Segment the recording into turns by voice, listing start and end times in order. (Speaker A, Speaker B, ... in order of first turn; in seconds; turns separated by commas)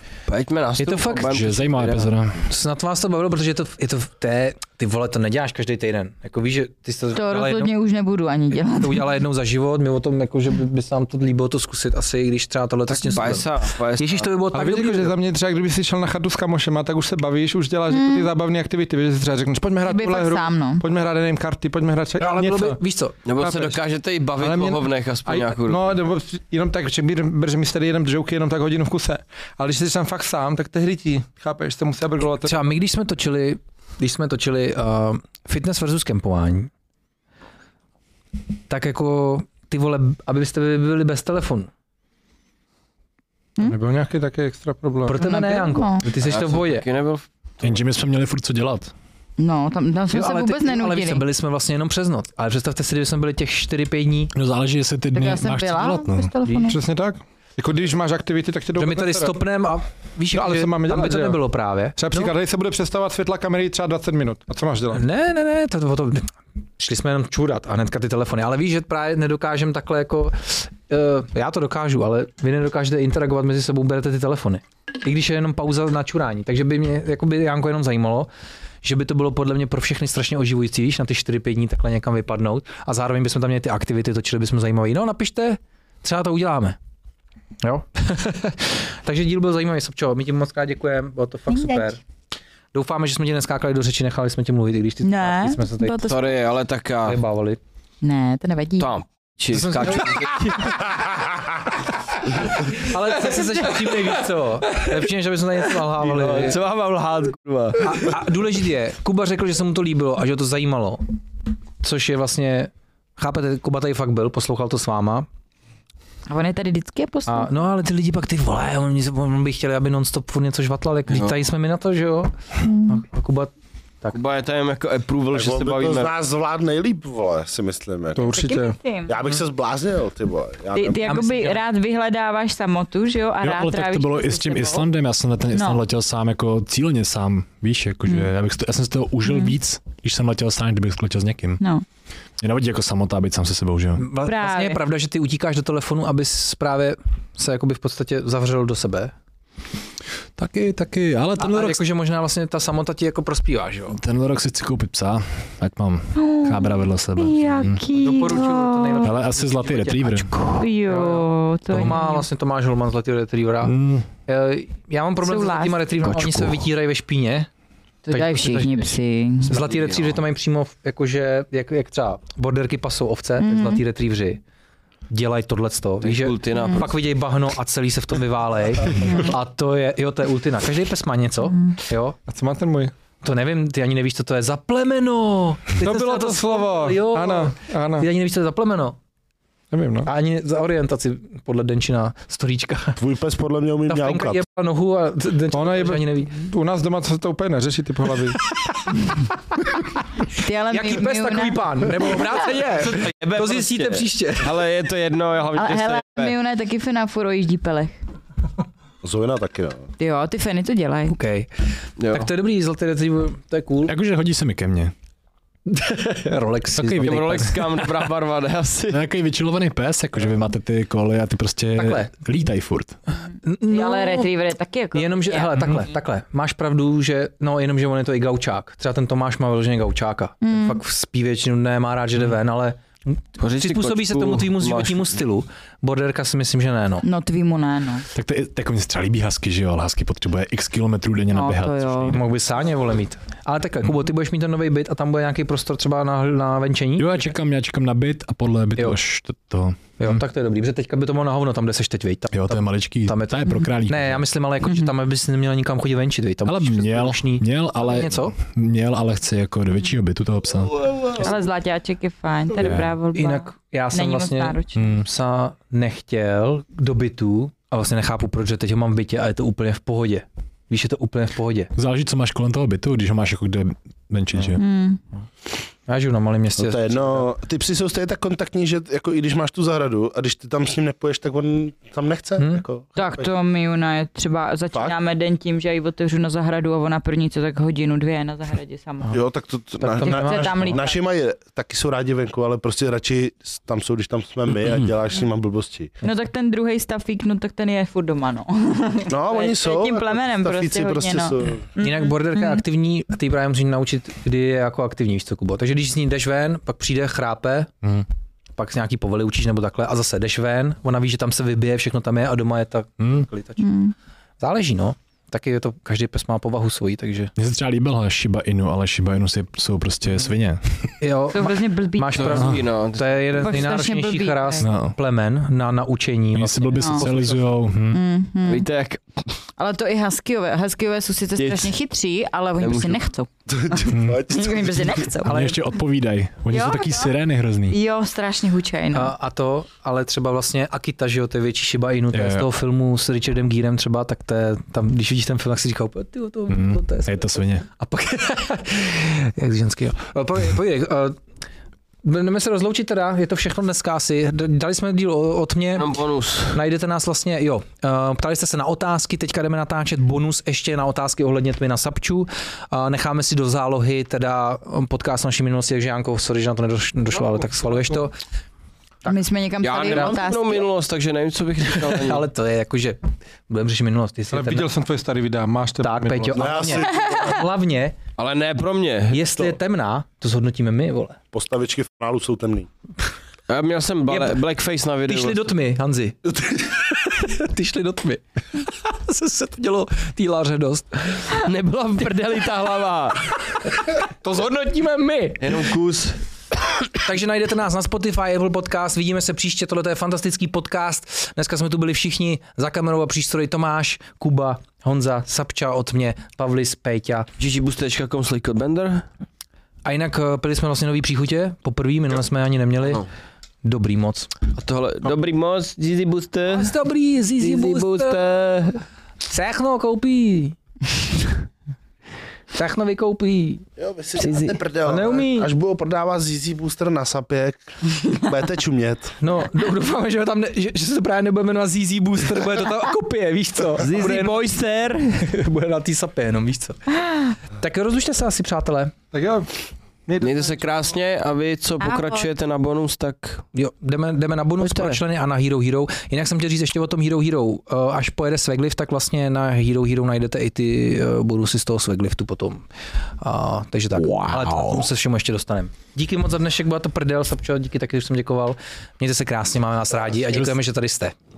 Speaker A: 0.3-2.1, Speaker B: 0.8-1.3, Speaker C: 1.2-2.4, Speaker B: 2.4-7.7, Speaker D: 7.1-9.0, Speaker B: 8.6-15.1, Speaker A: 12.9-14.3, Speaker E: 14.5-22.8, Speaker D: 17.9-18.3, Speaker D: 19.8-20.8, Speaker B: 22.2-23.7, Speaker A: 23.2-25.9, Speaker E: 24.4-32.6, Speaker B: 32.4-36.7, Speaker B: 38.7-41.7, Speaker E: 43.6-45.2, Speaker B: 45.0-46.8, Speaker D: 45.2-46.0, Speaker A: 46.2-47.8, Speaker C: 47.6-48.9, Speaker D: 49.4-51.2, Speaker B: 50.1-54.3, Speaker C: 54.3-56.3, Speaker D: 55.1-56.8, Speaker B: 56.4-56.7, Speaker E: 56.7-59.3, Speaker B: 58.8-62.3, Speaker E: 60.3-61.4, Speaker E: 62.0-65.0, Speaker B: 64.9-78.3, Speaker B: 78.8-86.8, Speaker B: 87.6-92.0, Speaker D: 91.5-91.9, Speaker B: 92.7-96.0, Speaker D: 95.0-96.3, Speaker A: 96.0-97.2, Speaker B: 97.0-97.6, Speaker D: 98.0-98.9, Speaker A: 98.8-100.9, Speaker B: 99.5-100.8, Speaker B: 102.5-106.6, Speaker A: 106.0-108.1, Speaker B: 107.8-111.0, Speaker B: 111.8-115.3, Speaker D: 116.3-117.5, Speaker B: 117.2-122.3, Speaker A: 121.1-121.3, Speaker B: 122.8-124.2, Speaker A: 124.1-126.1, Speaker F: 125.3-128.2, Speaker E: 128.2-128.8, Speaker D: 128.2-129.2, Speaker F: 129.1-131.1, Speaker D: 130.7-134.9, Speaker B: 131.0-131.6, Speaker C: 133.4-141.6, Speaker D: 135.5-135.8, Speaker D: 139.3-139.5, Speaker C: 142.4-144.0, Speaker B: 144.0-149.1, Speaker D: 144.2-144.8, Speaker C: 150.4-151.8, Speaker B: 151.4-154.0, Speaker C: 153.9-157.8, Speaker D: 156.2-159.1, Speaker B: 157.9-167.5, Speaker C: 159.0-160.4, Speaker D: 160.6-162.2, Speaker C: 163.6-164.1, Speaker D: 165.2-165.9, Speaker C: 166.1-166.5, Speaker B: 168.1-174.4, Speaker D: 168.1-169.5, Speaker A: 169.5-170.2, Speaker D: 173.4-173.8, Speaker B: 175.1-182.2, Speaker A: 176.0-176.9, Speaker D: 176.5-176.8, Speaker D: 179.0-179.3, Speaker E: 182.3-182.9, Speaker B: 183.2-189.0, Speaker E: 185.8-188.1, Speaker E: 189.7-190.1, Speaker B: 190.1-193.0, Speaker F: 193.0-194.4, Speaker B: 193.9-196.4, Speaker E: 195.5-198.4, Speaker D: 200.3-202.2, Speaker B: 200.7-204.5, Speaker A: 202.8-206.3, Speaker D: 205.6-208.0, Speaker F: 209.0-209.9, Speaker D: 210.0-211.1, Speaker B: 211.1-213.9, Speaker A: 212.0-212.3, Speaker C: 213.8-214.9, Speaker B: 215.7-217.8, Speaker C: 216.7-217.7, Speaker A: 217.0-219.0, Speaker C: 218.9-222.9, Speaker B: 221.8-222.1, Speaker B: 223.4-224.3, Speaker D: 223.7-225.8, Speaker B: 224.9-237.0, Speaker D: 230.4-230.8, Speaker A: 233.4-235.2, Speaker D: 237.0-238.1, Speaker C: 238.1-242.2, Speaker D: 241.3-242.2, Speaker B: 242.1-247.3, Speaker C: 247.0-250.2, Speaker B: 250.0-258.4, Speaker C: 252.3-254.2, Speaker C: 256.4-260.7, Speaker A: 260.8-261.3, Speaker D: 261.1-264.8, Speaker C: 262.6-263.0, Speaker B: 263.1-271.7, Speaker C: 264.7-265.0, Speaker C: 271.7-274.6, Speaker D: 274.6-275.0, Speaker B: 275.9-277.2, Speaker F: 276.6-283.3, Speaker B: 282.4-282.6, Speaker D: 282.9-289.2, Speaker F: 289.1-295.9, Speaker B: 289.8-290.8, Speaker D: 290.0-291.0, Speaker D: 296.0-302.6, Speaker F: 299.1-301.6, Speaker B: 301.8-307.7, Speaker B: 308.6-313.6, Speaker C: 313.0-313.3, Speaker D: 313.6-313.9, Speaker B: 314.4-317.3, Speaker C: 317.4-320.9, Speaker B: 321.0-327.5, Speaker D: 321.3-322.5, Speaker A: 322.1-323.7, Speaker D: 323.4-324.6, Speaker C: 324.6-324.9, Speaker C: 326.3-328.0, Speaker D: 326.8-327.0, Speaker D: 327.9-328.7, Speaker A: 328.4-329.3, Speaker D: 329.6-335.6, Speaker A: 331.4-331.7, Speaker A: 332.6-333.0, Speaker F: 333.5-335.0, Speaker C: 333.9-334.2, Speaker C: 335.2-337.8, Speaker B: 335.2-335.5, Speaker D: 336.5-337.1, Speaker D: 337.7-339.1, Speaker B: 338.9-351.2, Speaker C: 342.1-342.5, Speaker C: 346.5-347.6, Speaker B: 352.0-355.9, Speaker A: 355.7-356.6, Speaker B: 356.5-368.1, Speaker D: 369.0-370.7, Speaker A: 369.6-372.3, Speaker B: 369.8-370.1, Speaker B: 371.7-374.7, Speaker E: 374.3-376.6, Speaker B: 375.8-378.0, Speaker F: 376.3-377.4, Speaker A: 378.2-379.5, Speaker B: 379.1-381.2, Speaker F: 381.3-382.7, Speaker A: 383.5-385.4, Speaker B: 384.1-384.4, Speaker B: 385.1-391.3, Speaker A: 391.4-393.4, Speaker B: 394.0-395.6, Speaker A: 395.4-396.2, Speaker B: 396.9-407.3, Speaker A: 407.4-409.0, Speaker B: 409.8-413.0, Speaker B: 413.6-414.3, Speaker A: 414.5-416.7, Speaker B: 416.5-418.2, Speaker A: 417.4-418.8, Speaker B: 419.3-420.6, Speaker B: 422.5-423.6, Speaker F: 423.8-429.2, Speaker A: 424.2-424.6, Speaker B: 424.8-425.5, Speaker B: 429.2-434.5, Speaker A: 433.8-435.1, Speaker B: 435.1-438.9, Speaker E: 439.1-439.5, Speaker E: 440.1-440.4, Speaker A: 440.2-443.4, Speaker D: 441.8-442.3, Speaker B: 443.5-452.6, Speaker A: 444.6-445.0, Speaker B: 453.2-461.1, Speaker A: 454.0-454.8, Speaker C: 460.3-460.6